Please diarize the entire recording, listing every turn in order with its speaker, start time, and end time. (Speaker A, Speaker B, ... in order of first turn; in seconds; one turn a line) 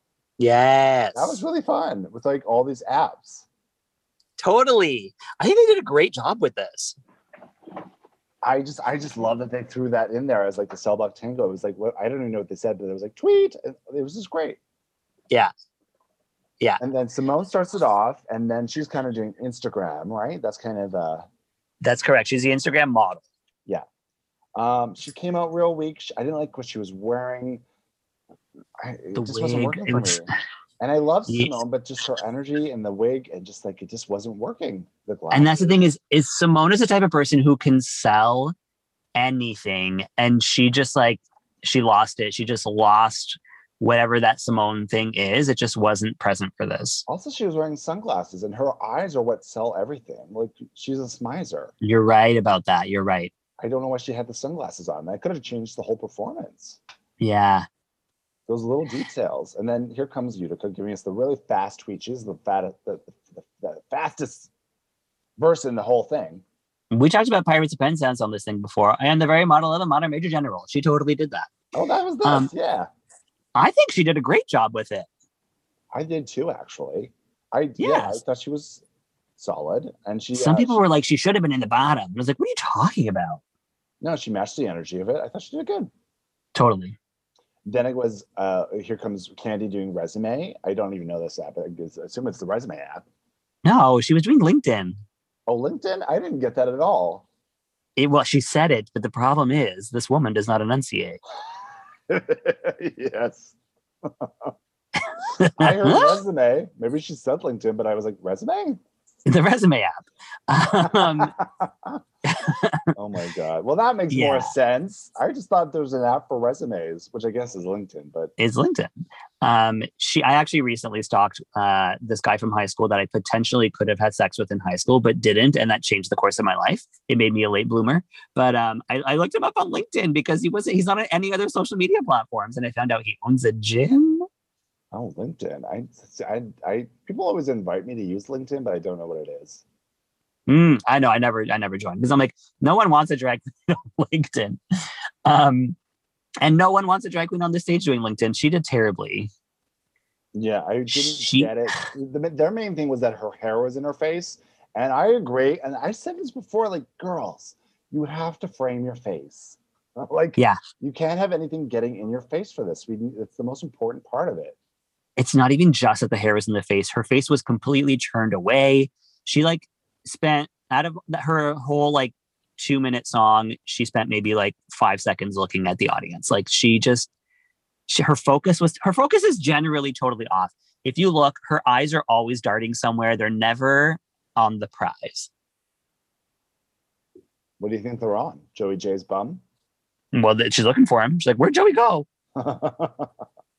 Speaker A: 0.4-1.4
Speaker B: 1.1-3.5
Speaker A: 4.4-7.0
Speaker B: 8.4-14.6
Speaker B: 16.8-21.3
Speaker A: 21.8-23.2
Speaker B: 24.6-27.6
Speaker B: 28.8-30.3
Speaker A: 29.1-30.2
Speaker B: 30.8-35.9
Speaker A: 31.3-31.6
Speaker A: 35.3-38.5
Speaker A: 39.1-47.0
Speaker B: 47.1-51.7
Speaker A: 51.8-53.3
Speaker B: 53.6-56.8
Speaker A: 57.2-57.7
Speaker B: 58.5-64.5
Speaker B: 65.4-66.4
Speaker A: 66.9-71.5
Speaker B: 71.7-72.9
Speaker A: 72.2-72.5
Speaker A: 73.5-75.1
Speaker B: 75.9-78.8
Speaker A: 77.8-78.2
Speaker B: 79.4-80.8
Speaker A: 80.3-83.4
Speaker B: 84.0-85.9
Speaker A: 86.5-87.0
Speaker B: 87.7-93.0
Speaker A: 93.7-95.0
Speaker B: 95.5-97.2
Speaker A: 98.0-101.2
Speaker B: 102.1-104.5
Speaker A: 105.4-106.2
Speaker B: 105.5-108.8
Speaker A: 109.3-111.3
Speaker B: 110.7-112.0
Speaker A: 112.3-112.9
Speaker B: 112.9-118.3
Speaker A: 114.1-114.5
Speaker A: 118.4-134.3
Speaker B: 134.9-139.6
Speaker A: 140.5-144.6
Speaker A: 145.2-145.8
Speaker A: 146.4-149.3
Speaker B: 150.3-164.6
Speaker A: 150.9-151.5
Speaker A: 165.2-177.1
Speaker A: 177.9-185.3
Speaker B: 187.6-189.4
Speaker A: 190.1-192.1
Speaker B: 192.4-193.1